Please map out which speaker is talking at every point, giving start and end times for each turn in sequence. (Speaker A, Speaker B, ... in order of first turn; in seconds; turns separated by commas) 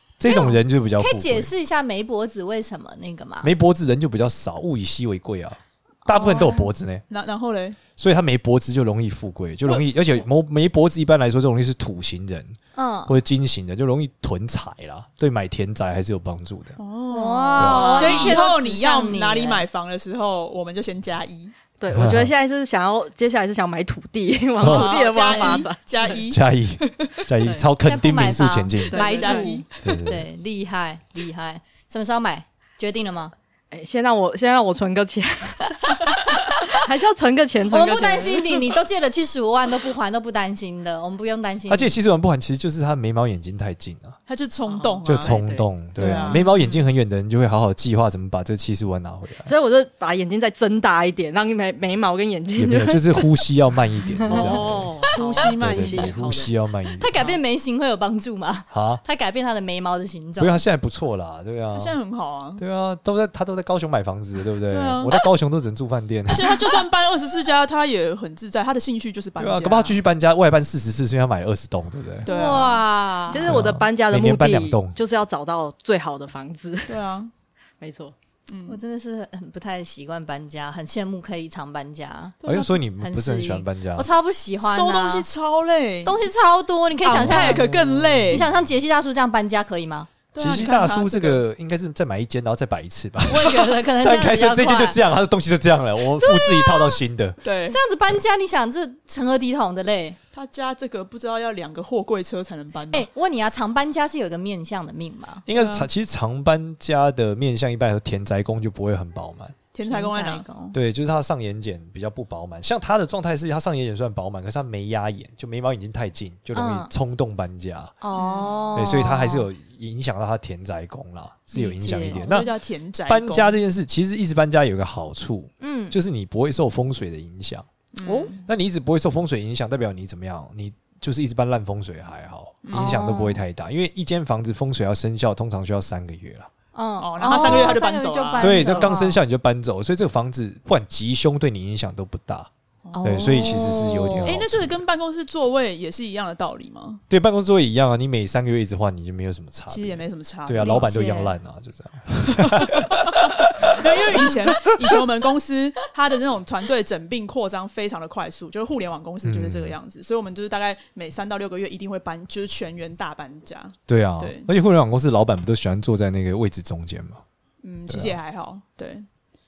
Speaker A: 0.2-1.5, Speaker B: 0.2-3.5, Speaker A: 3.4-7.0, Speaker B: 6.0-6.7, Speaker C: 7.1-7.8, Speaker A: 8.0-16.8, Speaker B: 12.7-13.2, Speaker C: 16.8-21.5, Speaker B: 17.1-19.6, Speaker A: 17.6-18.4, Speaker D: 21.8-26.2, Speaker A: 21.9-22.3, Speaker A: 24.6-24.9, Speaker C: 24.6-27.3, Speaker B: 25.3-25.6, Speaker A: 26.2-29.2, Speaker D: 27.4-27.7, Speaker B: 27.8-33.3, Speaker C: 28.9-30.0, Speaker D: 28.9-29.6, Speaker A: 29.8-30.2, Speaker D: 33.7-38.6, Speaker B: 35.9-36.4, Speaker B: 37.7-41.9, Speaker A: 41.7-44.2, Speaker C: 44.3-45.4, Speaker D: 44.7-46.7, Speaker A: 45.0-49.5, Speaker C: 46.0-46.5, Speaker D: 49.5-53.3, Speaker A: 52.6-57.2, Speaker D: 54.3-56.5, Speaker C: 55.1-56.1, Speaker B: 57.0-60.6, Speaker A: 58.7-59.0, Speaker A: 60.4-61.9, Speaker C: 61.7-62.6, Speaker A: 62.6-66.5, Speaker C: 64.7-65.1, Speaker C: 66.3-70.0, Speaker A: 69.4-72.3, Speaker C: 72.2-72.8, Speaker B: 72.3-73.6, Speaker D: 73.3-77.0, Speaker A: 73.5-75.0, Speaker C: 76.9-77.3, Speaker D: 77.8-78.1, Speaker C: 78.5-78.8, Speaker B: 78.7-82.4, Speaker C: 82.4-82.7, Speaker A: 82.5-84.1, Speaker B: 83.0-85.3, Speaker C: 84.6-86.2, Speaker B: 86.0-87.6, Speaker C: 87.0-88.4, Speaker A: 87.1-88.6, Speaker B: 88.3-90.1, Speaker C: 90.3-91.4, Speaker A: 90.4-97.4, Speaker B: 93.3-95.0, Speaker B: 96.2-97.0, Speaker C: 97.4-97.8, Speaker B: 97.7-100.2, Speaker C: 100.3-103.1, Speaker B: 102.9-105.4, Speaker A: 105.5-109.6, Speaker C: 105.5-105.9, Speaker C: 109.7-110.5, Speaker B: 109.8-110.8, Speaker A: 110.7-117.9, Speaker B: 116.5-116.9, Speaker B: 118.0-119.5, Speaker C: 118.1-118.5, Speaker A: 118.7-122.5, Speaker B: 121.5-122.3, Speaker C: 122.2-123.6, Speaker A: 123.1-127.7, Speaker B: 125.6-126.0, Speaker C: 128.0-128.4, Speaker B: 128.1-128.3, Speaker A: 128.4-136.5, Speaker C: 132.6-132.9, Speaker B: 132.7-133.4, Speaker B: 136.7-139.2, Speaker C: 137.0-138.9, Speaker A: 137.3-137.8, Speaker A: 138.4-142.5, Speaker C: 142.9-143.4, Speaker B: 142.9-144.4, Speaker A: 143.0-144.8, Speaker C: 144.2-147.0, Speaker A: 147.1-154.6, Speaker C: 149.7-150.9, Speaker B: 150.6-151.3, Speaker C: 152.4-164.5, Speaker A: 159.2-159.7, Speaker A: 163.9-167.2, Speaker C: 167.6-169.1, Speaker A: 167.9-168.2